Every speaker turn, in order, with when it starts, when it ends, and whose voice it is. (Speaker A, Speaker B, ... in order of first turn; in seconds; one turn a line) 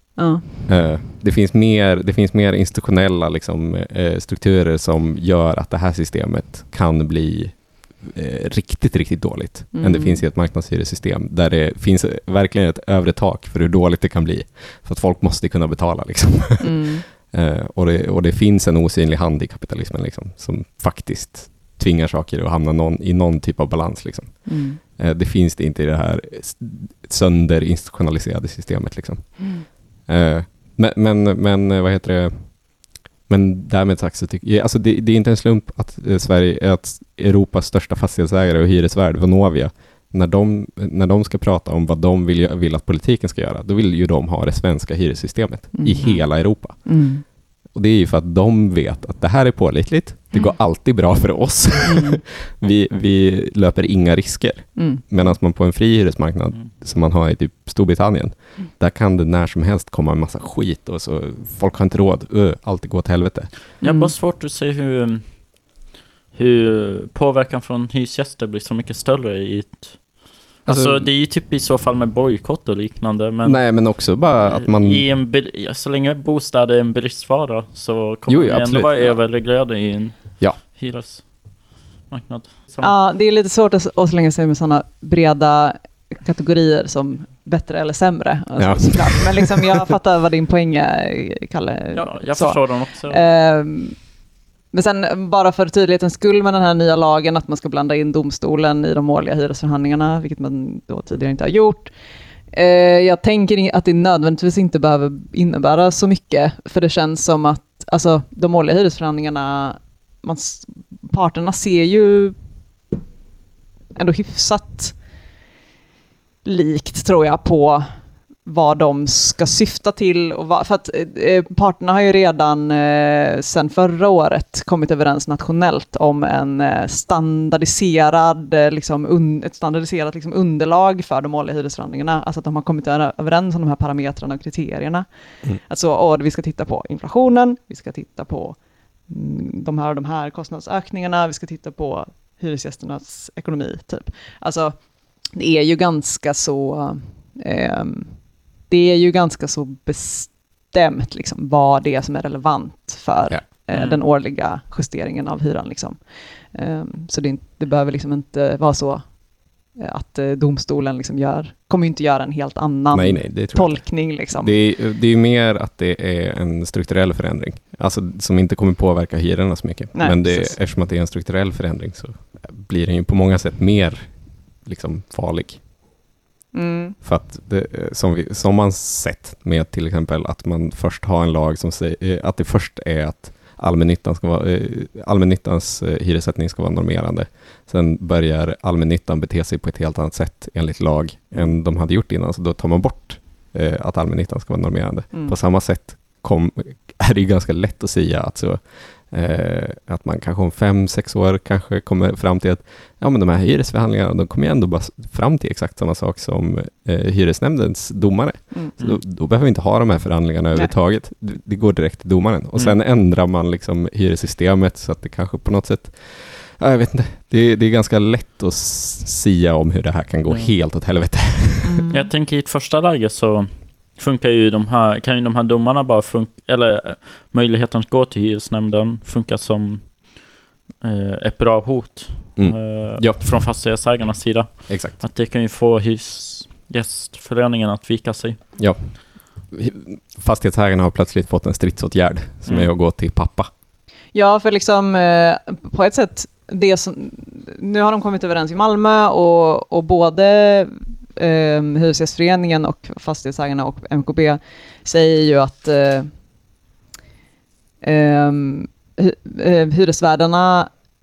Speaker A: 0.2-0.7
Speaker B: 0.7-63.5
Speaker A: 9.7-10.2
Speaker A: 16.6-17.0
Speaker A: 24.4-24.8
Speaker A: 29.4-29.6
Speaker A: 45.7-47.2
Speaker A: 51.8-52.2
Speaker A: 54.8-55.0
Speaker C: 63.8-65.7
Speaker A: 63.8-64.1
Speaker C: 66.3-82.9
Speaker B: 70.7-71.1
Speaker B: 73.4-75.1
Speaker B: 78.3-79.5
Speaker A: 82.8-94.0
Speaker B: 88.6-89.8
Speaker C: 91.9-93.2
Speaker A: 94.7-101.9
Speaker A: 102.5-112.3
Speaker A: 113.9-115.0
Speaker A: 116.4-117.9
Speaker A: 118.4-135.1
Speaker A: 135.6-144.8
Speaker A: 145.3-164.6
Speaker C: 153.7-154.0
Speaker B: 162.9-175.6
Speaker A: 169.9-170.6
Speaker A: 176.5-176.9
Speaker B: 177.0-221.8
Speaker A: 195.1-195.4
Speaker C: 220.3-220.5
Speaker A: 221.6-222.1
Speaker C: 221.9-238.4
Speaker B: 232.4-233.7
Speaker B: 234.7-235.0
Speaker B: 238.6-243.5
Speaker A: 244.1-256.1
Speaker A: 257.8-260.7